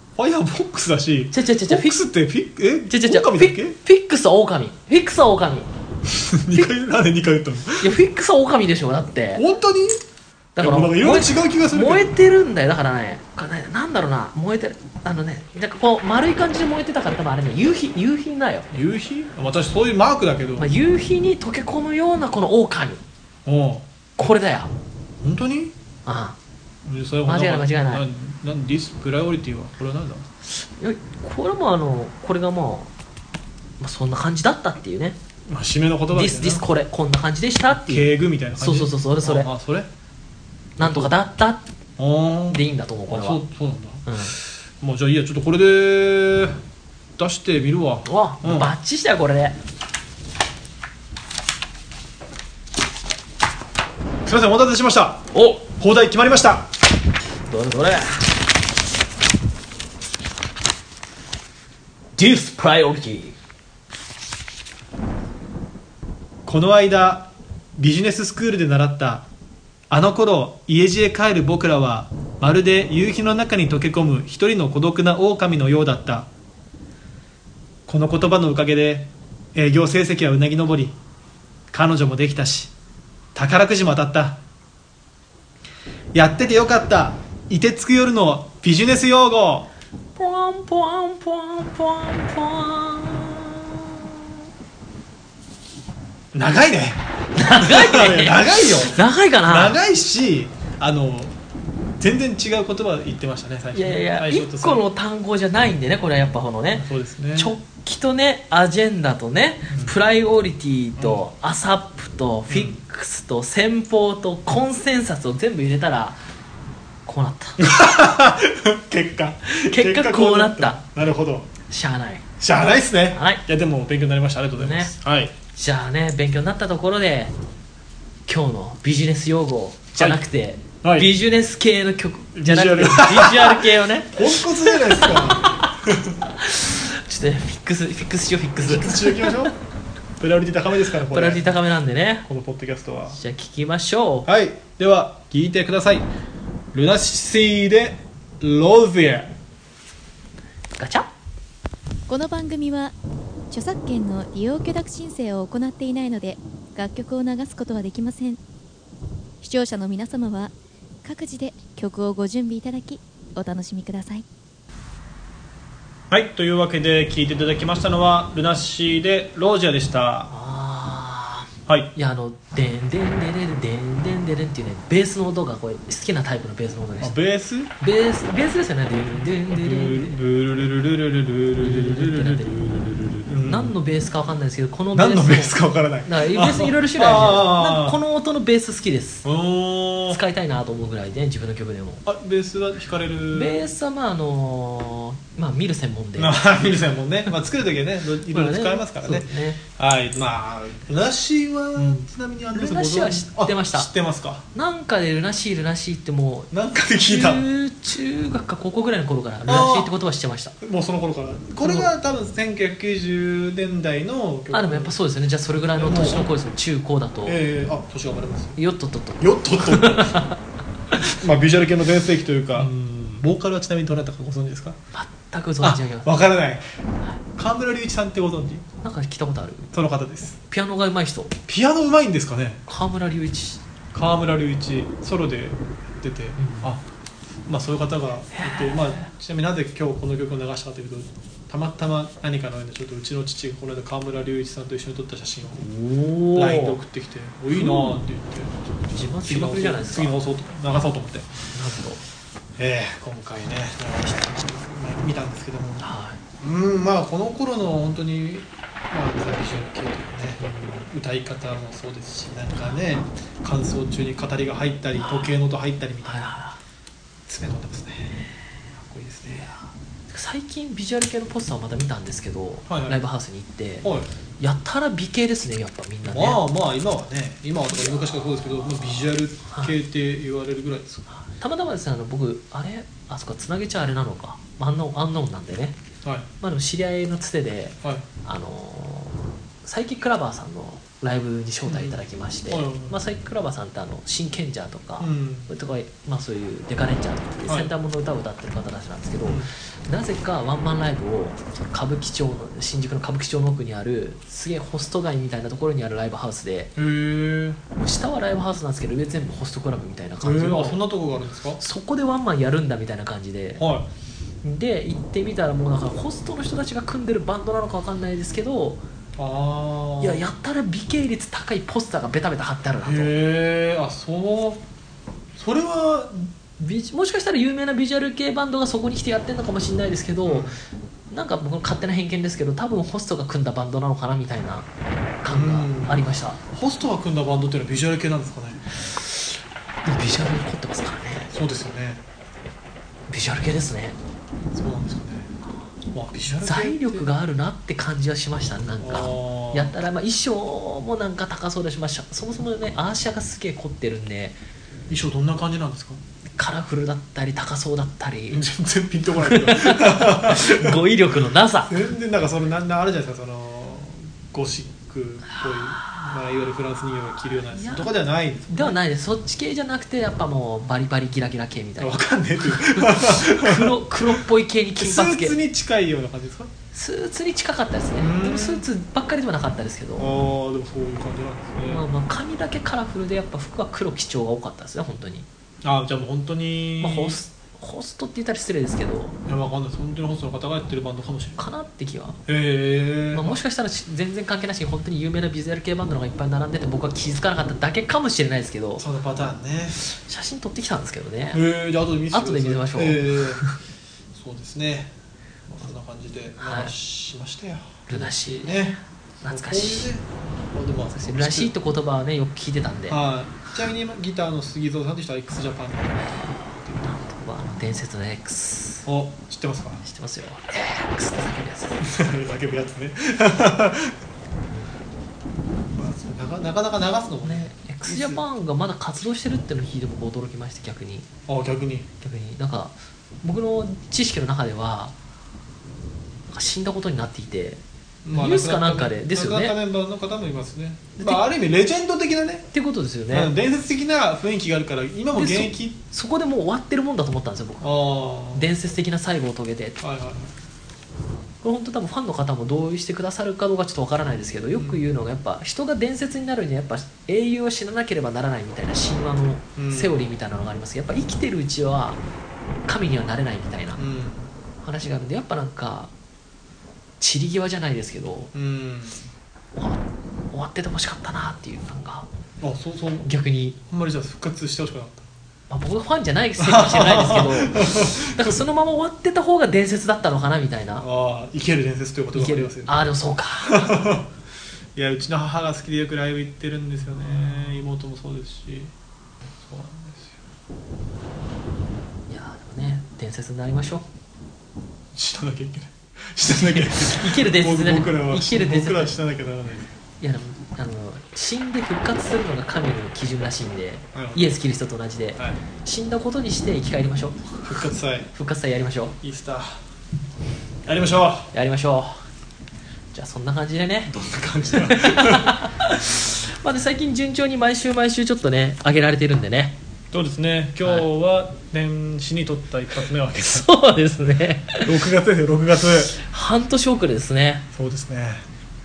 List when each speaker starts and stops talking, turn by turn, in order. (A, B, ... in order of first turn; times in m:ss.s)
0:00.2-0:03.8 A
0:01.3-0:02.0 B
0:02.9-0:05.7 B
0:06.1-0:07.9 A
0:07.8-0:09.4 B
0:09.4-0:10.0 A
0:10.6-0:18.7 B
0:10.6-0:12.2 A
0:18.7-0:20.7 A
0:20.6-0:23.0 B
0:23.5-0:23.8 A
0:24.2-0:24.7 B
0:25.2-0:25.7 A
0:26.1-0:26.4 B
0:26.8-0:30.3 A
0:27.2-0:28.0 B
0:30.6-0:32.9 B
0:33.8-0:35.2 B
0:35.5-0:36.6 A
0:36.1-0:39.5 B
0:37.8-0:39.9 A
0:40.8-0:41.1 A
0:40.8-0:41.6 B
0:42.0-0:46.6 A
0:42.5-0:43.4 B
0:44.0-0:44.4 B
0:47.2-0:48.7 A
0:48.1-0:49.6 B
0:54.2-0:56.7 A
0:55.3-0:55.6 B
0:57.5-0:58.2 B
1:02.2-1:03.4 B
1:06.5-1:09.3 A
1:09.9-1:16.3 A
1:17.9-1:21.0 A
1:21.7-1:22.7 A
1:23.4-1:24.4 A
1:26.1-1:29.7 A
1:30.2-1:34.3 B
1:36.3-1:41.4 A
1:37.4-1:39.8 B
1:42.0-1:44.8 A
1:43.7-1:56.2 B
1:46.7-1:47.5 A
1:49.7-1:50.0 A
1:52.5-1:52.8 A
1:57.1-1:57.6 B
1:57.6-2:01.5 A
1:59.5-2:00.8 B
2:01.7-2:03.4 B
2:02.4-2:05.3 A
2:04.6-2:04.9 B
2:05.5-2:07.3 B
2:08.3-2:15.7 B
2:10.8-2:11.1 A
2:12.4-2:16.2 A
2:16.4-2:19.5 B
2:18.6-2:19.6 A
2:20.2-2:21.5 A
2:21.1-2:22.3 B
2:22.2-2:23.2 A
2:23.1-2:24.3 B
2:24.3-2:26.1 A
2:26.7-2:29.3 A
2:30.8-2:31.1 B
2:32.1-2:33.0 C
2:33.5-2:38.4 C
2:39.4-2:40.5 C
2:41.0-2:44.2 C
2:46.1-2:50.3 A
2:50.3-2:57.1 B
2:51.7-2:51.9 A
2:57.0-2:57.7 A
2:57.8-3:00.2 B
2:59.2-3:03.8 A
3:01.6-3:02.6 B
3:03.4-3:09.3 B
3:04.9-3:08.0 A
3:09.2-3:10.2 A
3:10.1-3:12.0 B
3:12.0-3:13.6 A
3:13.3-3:16.4 B
3:16.2-3:24.4 A
3:18.3-3:19.6 B
3:22.5-3:23.9 B
3:24.5-3:26.5 B
3:26.5-3:27.5 A
3:27.0-3:30.5 B
3:29.5-3:29.9 A
3:30.6-3:35.0 A
3:31.6-3:31.9 B
3:34.5-3:37.4 B
3:35.8-3:36.3 A
3:37.2-3:38.6 A
3:38.6-3:40.4 B
3:39.2-3:40.2 A
3:41.0-3:44.8 A
3:44.9-3:46.2 B
3:45.6-3:46.6 A
3:47.4-3:48.6 A
3:48.8-3:49.7 B
3:49.7-3:50.4 A
3:50.5-3:51.4 B
3:51.5-3:52.6 A
3:52.7-3:53.6 B
3:53.9-3:56.8 A
3:56.4-3:56.7 B
3:57.5-4:05.7 A
3:58.3-3:59.1 B
4:05.6-4:06.8 B
4:06.4-4:11.4 A
4:07.5-4:08.0 B
4:08.9-4:10.1 B
4:11.5-4:12.0 B
4:12.6-4:26.4 A
4:15.8-4:16.2 B
4:20.4-4:20.8 B
4:25.0-4:25.3 B
4:26.0-4:26.6 B
4:27.3-4:28.1 A
4:28.7-4:29.5 A
4:30.1-4:33.9 B
4:32.7-4:33.0 A
4:33.8-4:34.1 A
4:34.4-4:36.4 B
4:36.0-4:41.0 A
4:41.1-4:45.8 B
4:46.0-4:46.3 A
4:46.4-5:06.7 B
4:51.7-4:53.0 A
4:55.0-4:55.5 A
4:59.2-4:59.5 A
5:06.8-5:07.6 A
5:07.8-5:10.8 B
5:10.2-5:11.6 A
5:11.6-5:13.6 B
5:13.6-5:13.9 A
5:14.4-5:18.8 B
5:19.2-5:20.2 A
5:20.0-5:23.1 B
5:22.8-5:24.6 A
5:25.4-5:26.3 A
5:26.6-5:30.6 B
5:30.2-5:30.6 A
5:31.1-5:34.7 B
5:35.2-5:36.4 B
5:35.3-5:38.6 A
5:39.8-5:41.3 B
5:41.3-5:42.0 A
5:43.1-5:44.0 B
5:44.5-5:45.3 A
5:45.9-5:47.1 A
5:46.4-5:54.4 B
5:48.8-5:49.8 A
5:54.9-5:56.0 A
5:56.4-5:58.4 B
5:58.3-6:00.8 A
5:59.2-6:01.8 B
6:01.7-6:08.8 A
6:07.5-6:07.9 B
6:08.5-6:15.4 B
6:11.8-6:14.2 A
6:14.8-6:16.5 A
6:16.7-6:20.1 B
6:18.0-6:18.7 A
6:20.0-6:21.8 A
6:21.7-6:25.3 B
6:25.6-6:27.2 A
6:26.8-6:29.2 B
6:29.3-6:31.4 A
6:31.4-6:32.2 B
6:32.3-6:33.4 A
6:33.1-6:38.8 B
6:38.8-6:39.8 A
6:39.8-6:41.4 B
6:41.3-6:43.5 A
6:42.1-6:43.5 B
6:44.1-6:44.9 A
6:45.5-6:51.5 A
6:46.4-6:46.7 B
6:47.9-6:48.6 B
6:49.2-6:49.9 B
6:50.9-6:53.0 B
6:52.9-6:57.0 A
6:56.1-6:58.9 B
6:58.8-6:59.8 A
6:59.8-7:01.9 B
7:01.8-7:04.0 A
7:05.7-7:08.2 A
7:07.2-7:11.1 B
7:11.3-7:11.9 A
7:12.0-7:15.0 B
7:16.3-7:17.6 B
7:18.0-7:22.5 A
7:18.1-7:19.6 B
7:21.0-7:21.2 B
7:22.5-7:23.3 B
7:23.1-7:25.8 A
7:25.1-7:27.8 B
7:27.6-7:28.5 A
7:28.3-7:29.8 B
7:29.8-7:30.3 A
7:31.4-7:42.0 B
7:34.5-7:34.9 A
7:39.6-7:40.0 A
7:42.7-7:43.8 B
7:43.8-7:44.3 A
7:44.6-7:45.9 B
7:47.0-7:48.3 B
7:48.3-7:49.1 A
7:49.6-7:52.1 B
7:52.4-7:53.1 A
7:53.0-7:53.6 B
7:53.7-7:55.1 A
7:55.5-8:00.9 B
7:56.4-7:58.4 A
8:00.8-8:02.8 A
8:02.2-8:03.9 B
8:03.5-8:04.1 A
8:04.8-8:08.7 A
8:09.4-8:10.2 A
8:12.1-8:13.9 B
8:14.9-8:19.7 A
8:16.3-8:19.0 B
8:20.0-8:27.3 B
8:23.9-8:24.4 A
8:27.4-8:28.1 A
8:28.2-8:29.0 B
8:29.0-8:29.6 A
8:30.6-8:31.3 A
8:31.3-8:32.0 B
8:32.9-8:33.9 B
8:33.9-8:35.4 A
8:34.5-8:39.6 B
8:39.9-8:43.5 A
8:43.2-8:44.8 B
8:44.6-8:46.0 A
8:45.9-8:47.4 B
8:47.6-8:48.2 A